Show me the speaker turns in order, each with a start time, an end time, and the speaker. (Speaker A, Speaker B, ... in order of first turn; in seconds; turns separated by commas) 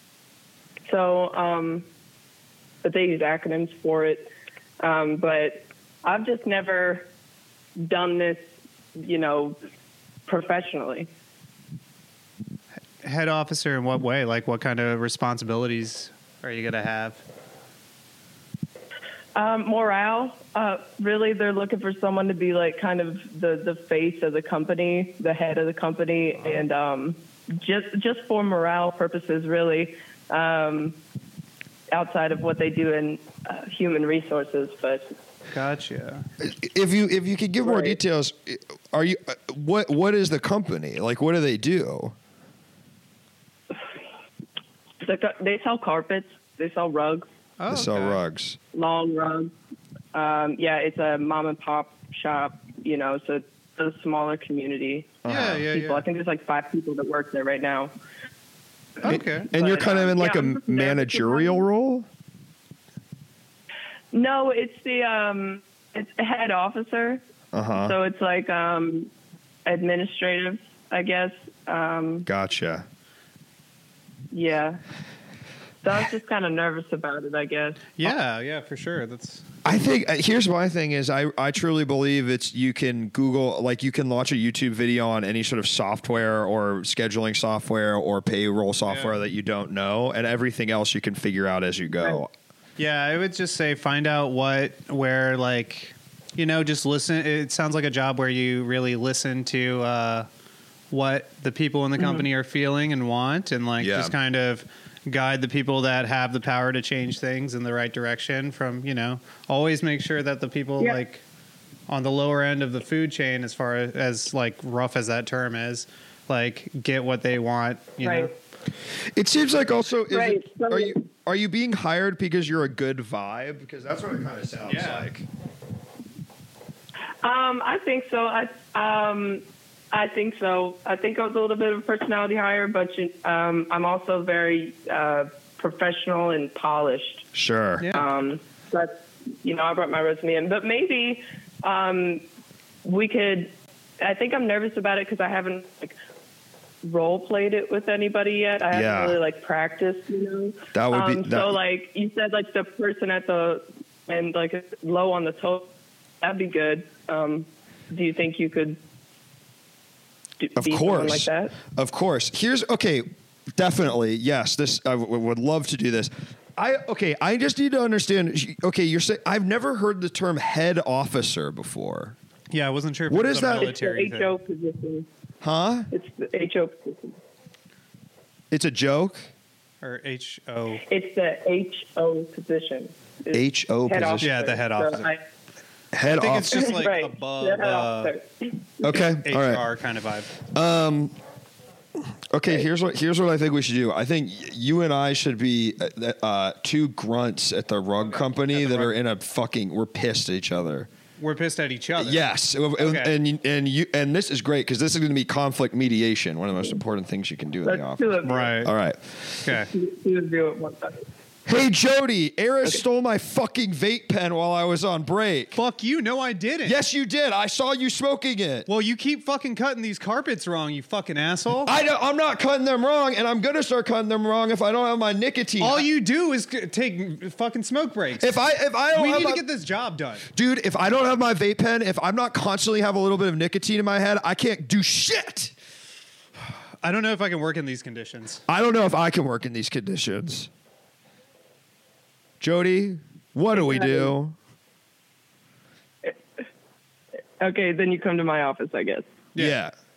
Speaker A: 0.8-1.9, Speaker A: 2.8-7.1, Speaker A: 7.8-9.6, Speaker A: 10.3-11.1, Speaker B: 13.0-17.2, Speaker A: 19.3-31.0, Speaker A: 31.9-35.1, Speaker B: 35.5-36.3, Speaker C: 36.4-42.1, Speaker A: 37.6-38.0, Speaker A: 45.0-47.3, Speaker B: 47.6-48.2, Speaker C: 47.7-48.6, Speaker A: 48.7-49.5, Speaker A: 50.1-57.9, Speaker C: 55.2-55.6, Speaker B: 55.3-56.0, Speaker B: 59.0-59.5, Speaker C: 59.0-62.1, Speaker A: 59.5-61.6, Speaker A: 64.1-67.2, Speaker C: 67.5-67.9, Speaker A: 67.7-69.1, Speaker A: 69.7-72.2, Speaker C: 72.2-72.8, Speaker A: 74.3-74.8, Speaker A: 75.8-78.0, Speaker B: 78.0-79.5, Speaker C: 79.6-92.3, Speaker B: 88.8-89.2, Speaker B: 92.8-100.3, Speaker B: 100.9-111.2, Speaker A: 102.0-102.2, Speaker C: 103.8-104.1, Speaker B: 111.9-118.3, Speaker A: 118.0-118.3, Speaker C: 119.1-125.2, Speaker A: 120.1-121.0, Speaker B: 124.6-125.1, Speaker A: 127.2-137.3, Speaker C: 137.3-137.9, Speaker B: 137.8-138.1, Speaker A: 137.9-142.2, Speaker A: 142.8-146.0, Speaker A: 146.8-155.7, Speaker C: 148.7-149.2, Speaker C: 150.7-151.6, Speaker A: 156.2-158.8, Speaker A: 160.4-161.6, Speaker C: 160.6-172.2, Speaker B: 172.5-174.3, Speaker C: 173.1-173.7, Speaker A: 173.6-175.1, Speaker C: 175.4-175.9, Speaker A: 175.9-177.2, Speaker C: 178.5-179.3, Speaker B: 179.8-180.8, Speaker A: 180.8-185.2, Speaker C: 183.3-184.3, Speaker B: 184.2-185.1, Speaker C: 185.9-186.7, Speaker B: 186.1-188.1, Speaker A: 186.5-188.8, Speaker C: 188.8-189.7, Speaker B: 188.9-190.3, Speaker C: 190.3-191.2, Speaker C: 192.0-200.9, Speaker B: 198.0-198.9, Speaker B: 201.2-202.2, Speaker C: 202.0-209.5, Speaker B: 202.8-203.1, Speaker A: 207.6-208.5, Speaker B: 208.2-208.7, Speaker B: 209.4-209.7, Speaker A: 209.7-211.0, Speaker C: 211.4-215.6, Speaker B: 215.5-216.8, Speaker C: 216.6-218.7, Speaker B: 218.7-221.7, Speaker C: 221.7-225.9, Speaker B: 225.6-228.4, Speaker C: 228.2-229.4, Speaker B: 228.9-230.3, Speaker C: 230.3-235.5, Speaker B: 236.8-238.4, Speaker C: 238.5-240.5, Speaker C: 242.4-244.3, Speaker A: 243.5-244.1, Speaker A: 247.4-249.1, Speaker C: 249.3-249.7